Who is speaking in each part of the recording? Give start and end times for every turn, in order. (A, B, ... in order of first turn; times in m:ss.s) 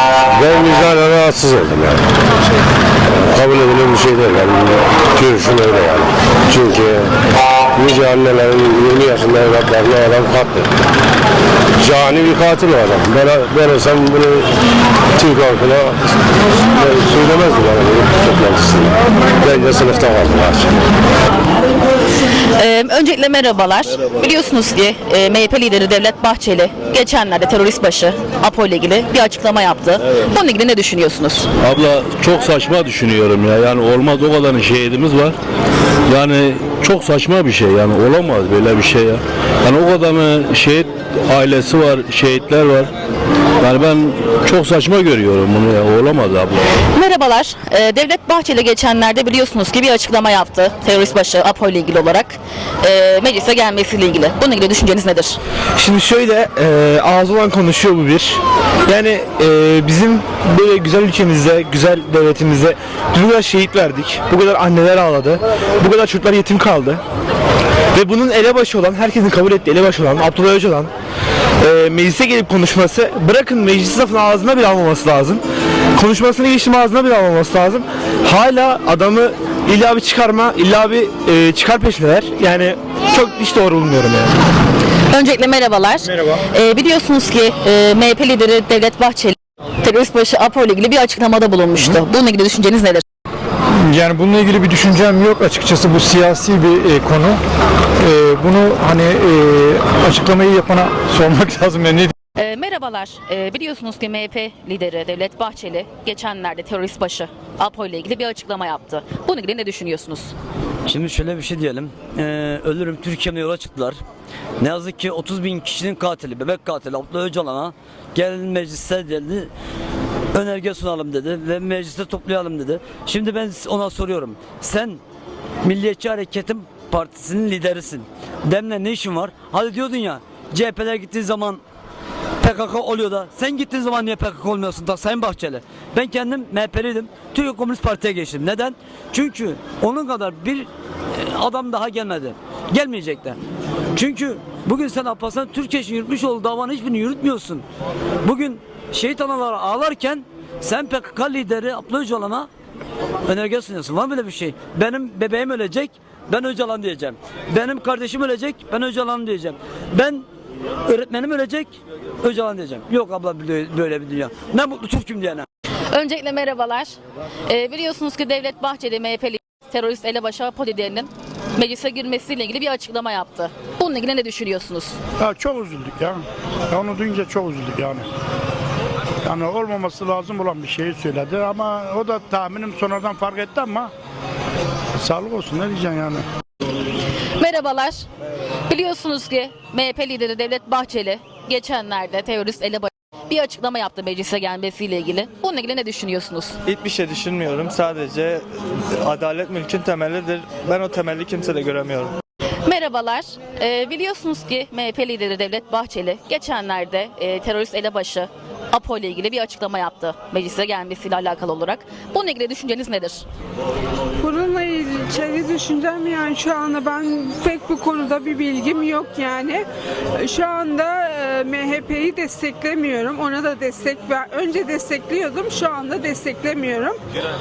0:00.3-0:02.0 A
0:03.1-0:07.1 A
0:07.7-0:10.7 A
0:11.8-0:14.5 A
0:15.2-0:16.0 A
0:16.7-0:20.7 A
0:22.6-0:31.5 B
0:31.6-0:35.4 C
0:36.1-0:42.9 C
0:43.6-0:46.7 C
0:46.9-0:55.4 B
0:55.8-1:07.0 D
1:07.9-1:10.9 D
1:11.6-1:15.4 D
1:15.9-1:24.4 D
1:25.1-1:33.0 B
1:33.8-1:37.4 E
1:38.0-1:42.1 E
1:42.4-1:50.3 B
1:50.9-1:54.0 F
1:54.6-1:59.5 F
2:00.3-2:05.0 F
2:05.6-2:11.6 F
2:12.4-2:23.4 F
2:23.9-2:27.6 F
2:28.2-2:32.5 F
2:33.2-2:40.2 F
2:40.8-2:45.4 F
2:45.9-2:46.9 B
2:47.5-2:55.0 B
2:55.2-2:58.1 G
2:59.2-3:03.9 G
3:05.0-3:06.2 G
3:07.4-3:08.0 B
3:08.7-3:16.6 B
3:16.6-3:18.4 H
3:19.0-3:22.1 H
3:22.6-3:33.2 B
3:34.2-3:39.6 I
3:40.2-3:47.0 I